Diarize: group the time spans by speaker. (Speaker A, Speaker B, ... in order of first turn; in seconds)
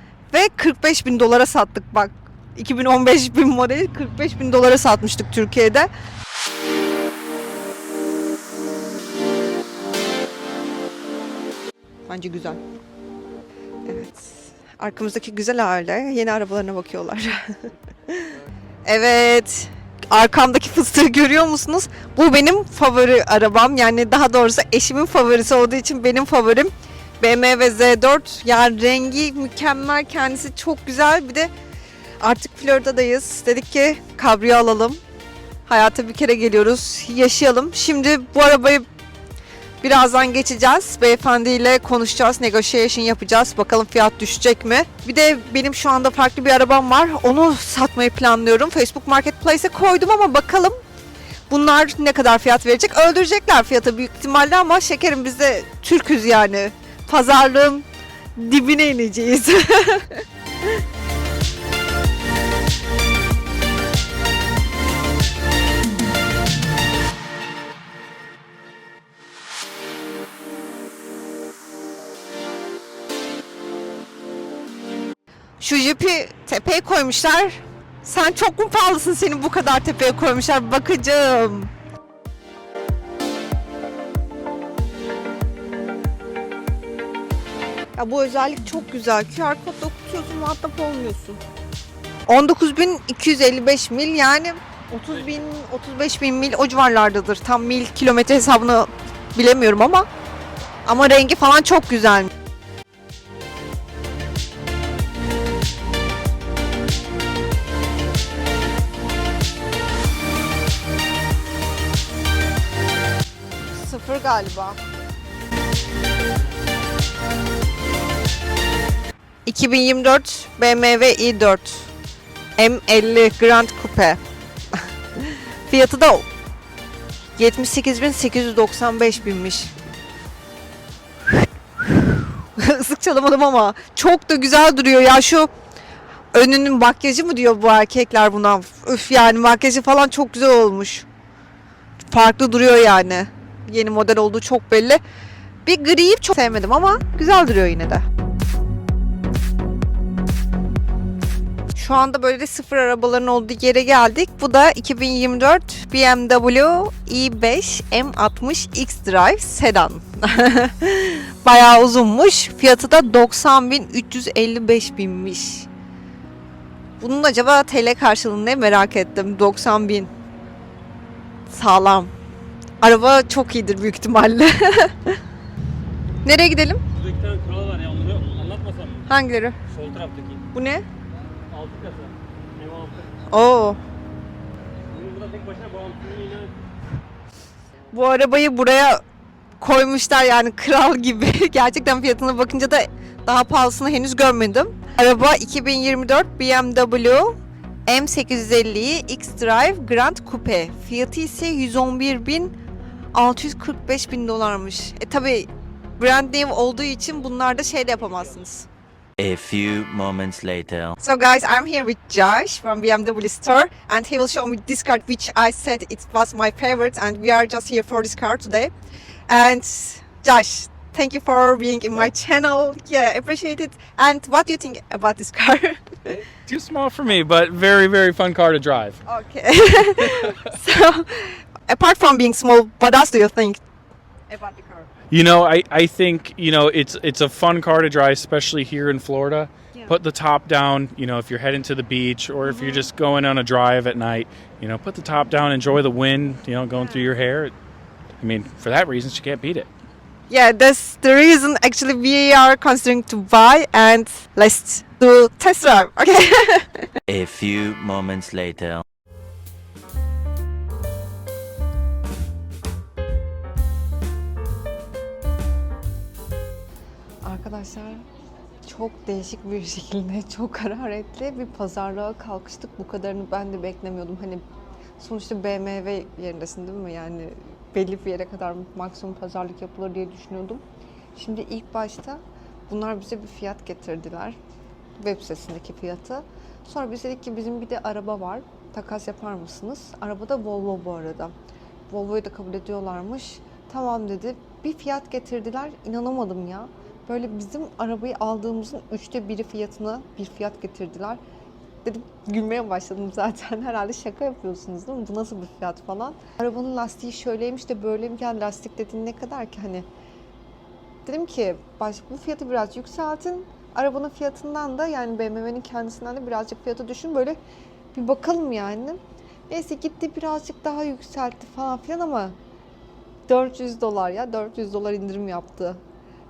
Speaker A: 0.3-5.9, 12.1-12.6, 13.8-18.3, 18.9-31.5, 32.2-35.0, 35.7-38.9, 39.8-50.8, 51.5-60.7, 75.6-81.7, 88.0-91.4, 92.3-100.1, 100.8-102.3, 113.7-114.8, 119.5-121.9, 122.6-124.2, 125.2-126.3, 127.3-129.7, 131.8-135.5, 136.3-141.1, 142.1-145.0, 145.6-148.0, 151.7-165.7, 167.0-170.1, 171.5-172.1, 172.8-175.2, 176.2-176.8, 179.1-179.6, 180.5-180.8, 183.3-183.8, 187.9-189.0, 189.6-197.3, 197.9-202.5, 203.1-208.7, 211.0-218.7, 219.3-226.2, 229.1-233.6, 234.3-234.9, 242.4-242.9, 246.7-247.1, 250.3-256.9, 267.2-268.0, 268.6-274.4, 275.0-280.6, 281.1-284.4, 285.0-291.3, 291.9-301.2, 301.8-309.9, 311.1-317.4, 317.9-322.4, 323.3-325.8
Speaker B: 176.9-179.1, 179.7-180.4, 181.5-183.1, 184.9-186.6
Speaker C: 209.2-211.0, 257.1-258.8
Speaker D: 226.4-229.0, 235.1-247.5, 248.2-249.7